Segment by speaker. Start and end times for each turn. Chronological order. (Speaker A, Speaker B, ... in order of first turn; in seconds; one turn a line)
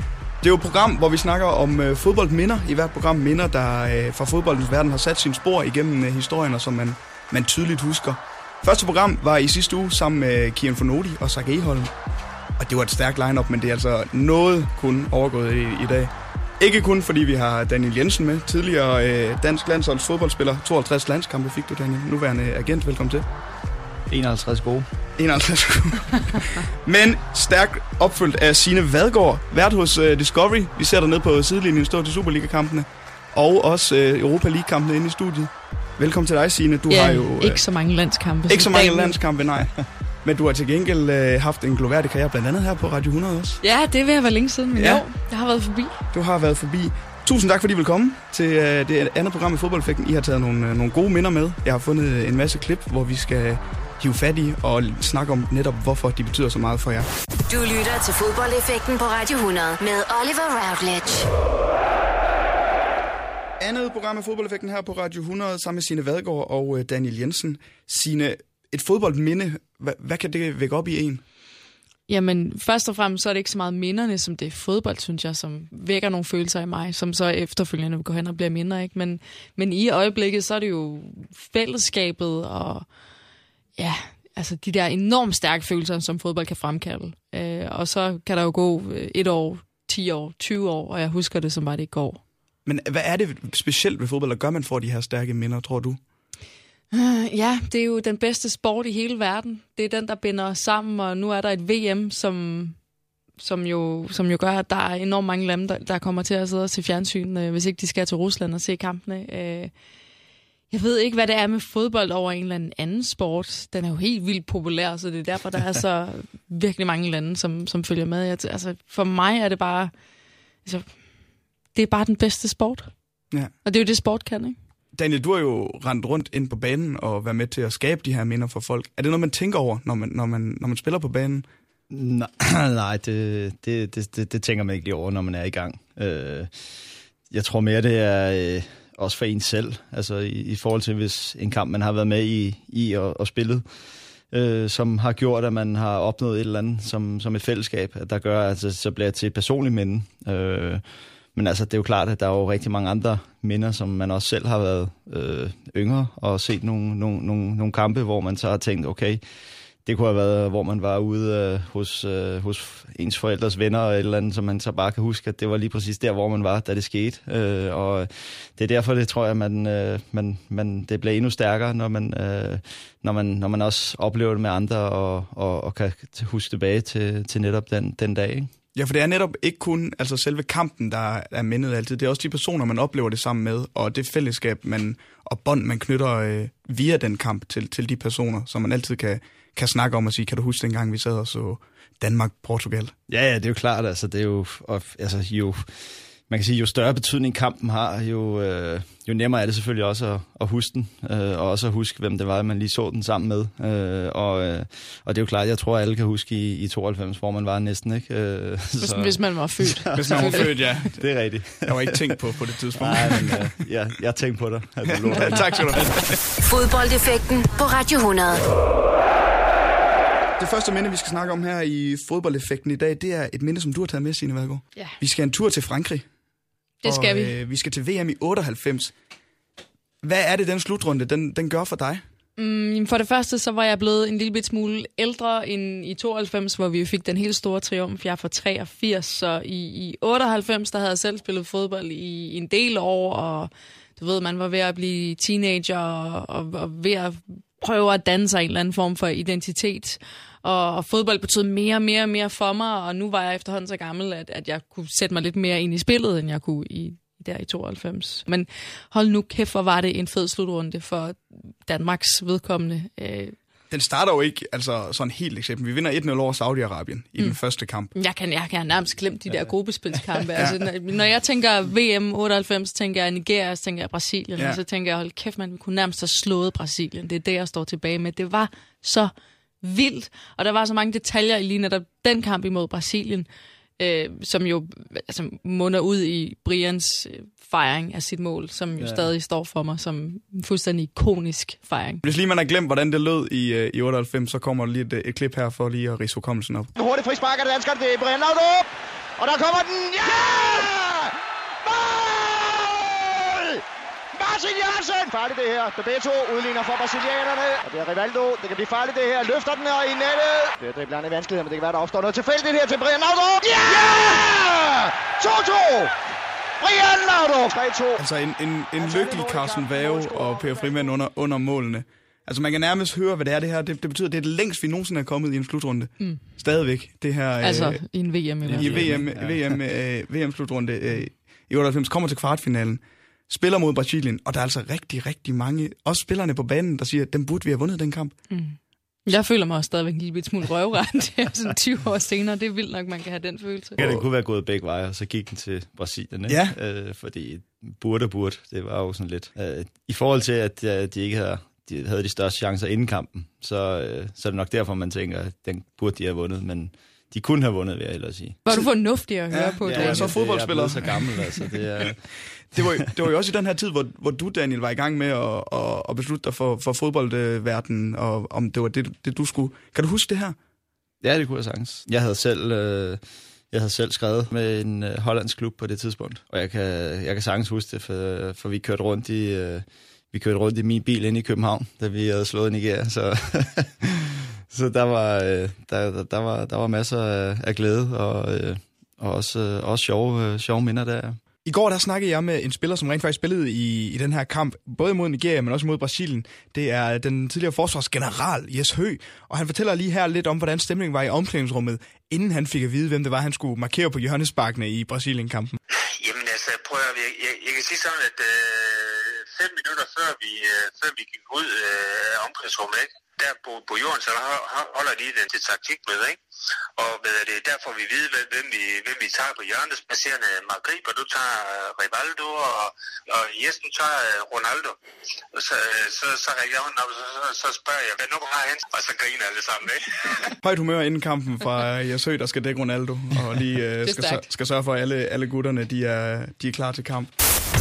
Speaker A: 0.4-11.9
Speaker A: 12.6-23.2
Speaker B: 24.1-24.9
Speaker A: 25.2-37.6
Speaker C: 36.9-39.2
Speaker A: 38.5-39.7
Speaker A: 40.2-43.6
Speaker C: 43.6-46.0
Speaker A: 44.8-45.0
Speaker A: 46.1-57.1
Speaker D: 57.5-61.3
Speaker A: 63.6-71.2
Speaker C: 72.1-82.8
Speaker C: 83.8-92.2
Speaker A: 92.6-96.0
Speaker C: 96.9-102.8
Speaker C: 103.4-109.7
Speaker C: 110.7-119.9
Speaker C: 120.6-120.9
Speaker C: 121.7-122.9
Speaker C: 123.6-124.5
Speaker A: 125.0-131.4
Speaker B: 131.9-136.8
Speaker B: 137.3-143.6
Speaker B: 144.3-159.2
Speaker B: 159.8-178.5
Speaker A: 178.7-192.9
Speaker B: 193.1-212.1
Speaker C: 208.8-210.5
Speaker A: 209.9-211.0
Speaker A: 211.6-213.5
Speaker B: 212.7-215.8
Speaker A: 214.9-216.2
Speaker D: 216.4-218.4
Speaker A: 220.4-226.1
Speaker C: 226.8-227.3
Speaker A: 226.8-228.9
Speaker A: 230.0-232.0
Speaker C: 232.4-263.4
Speaker A: 263.7-267.9
Speaker C: 267.9-283.3
Speaker C: 283.8-292.0
Speaker B: 288.8-289.1
Speaker A: 292.0-296.7
Speaker E: 296.8-301.1
Speaker E: 301.6-303.6
Speaker E: 304.1-315.9
Speaker E: 316.6-318.0
Speaker A: 318.0-327.8
Speaker E: 318.8-320.9
Speaker C: 327.4-329.1
Speaker B: 328.5-329.6
Speaker A: 328.5-338.1
Speaker C: 338.3-343.8
Speaker A: 343.8-344.1
Speaker B: 343.8-358.4
Speaker A: 346.3-346.5
Speaker C: 358.4-360.1
Speaker A: 359.3-361.2
Speaker B: 359.6-362.0
Speaker A: 362.5-370.4
Speaker B: 371.0-391.2
Speaker A: 391.4-405.6
Speaker F: 406.0-416.2
Speaker F: 416.8-424.8
Speaker F: 425.3-430.1
Speaker A: 430.4-437.1
Speaker C: 433.8-434.2